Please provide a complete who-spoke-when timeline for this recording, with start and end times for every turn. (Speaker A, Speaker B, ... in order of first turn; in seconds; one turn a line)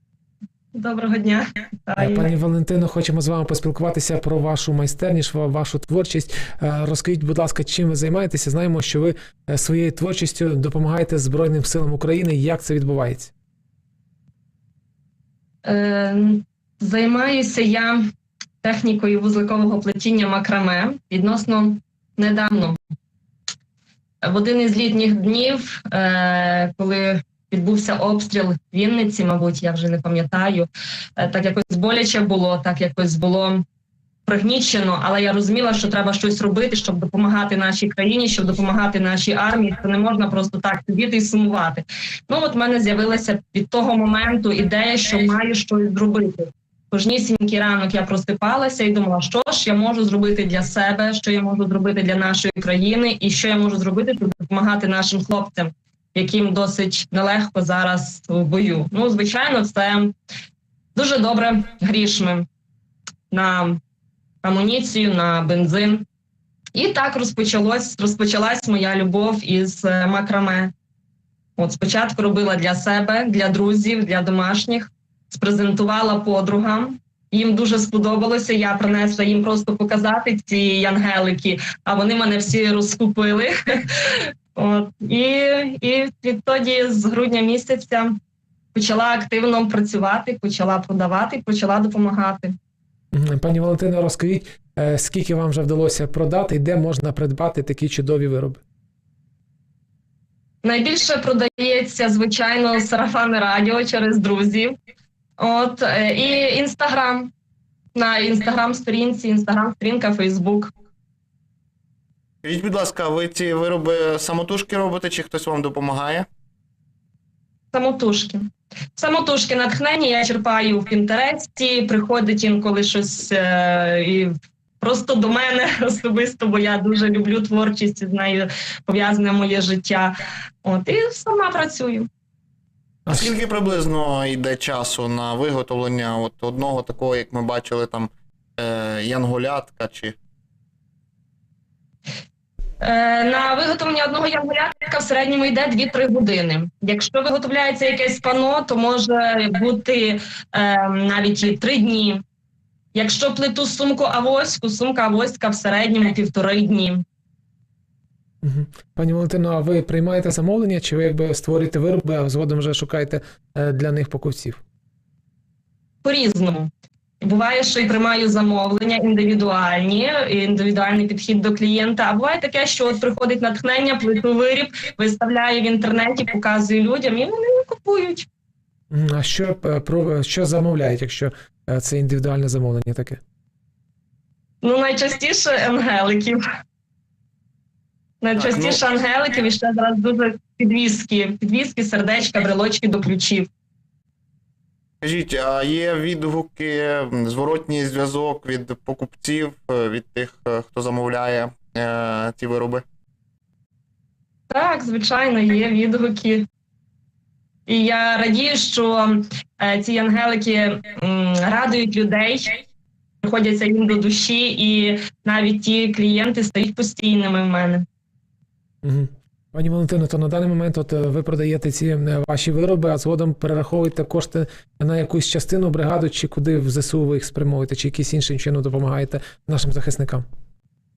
Speaker A: 0.7-2.3
Speaker B: 2.0-13.3
Speaker A: 15.7-18.0
Speaker A: 18.6-22.8
Speaker A: 24.2-33.6
Speaker A: 34.3-60.1
Speaker A: 61.0-62.5
Speaker A: 63.3-63.8
Speaker A: 64.4-66.0
Speaker A: 66.8-70.7
Speaker A: 71.6-88.2
Speaker A: 88.7-92.5
Speaker B: 93.1-98.6
Speaker A: 100.6-104.7
Speaker A: 105.4-107.3
Speaker A: 107.9-110.7
Speaker C: 112.4-116.3
Speaker A: 117.7-132.1
Speaker B: 133.1-133.3
Speaker C: 133.1-140.2
Speaker A: 142.8-152.2
Speaker A: 152.9-157.0
Speaker B: 158.4-164.6
Speaker A: 166.0-178.3
Speaker B: 178.9-183.2
Speaker A: 184.6-186.4
Speaker A: 188.2-193.5
Speaker C: 188.3-188.8
Speaker C: 195.0-202.8
Speaker A: 204.5-206.5
Speaker A: 207.7-212.6
Speaker A: 213.2-217.8
Speaker B: 218.8-230.2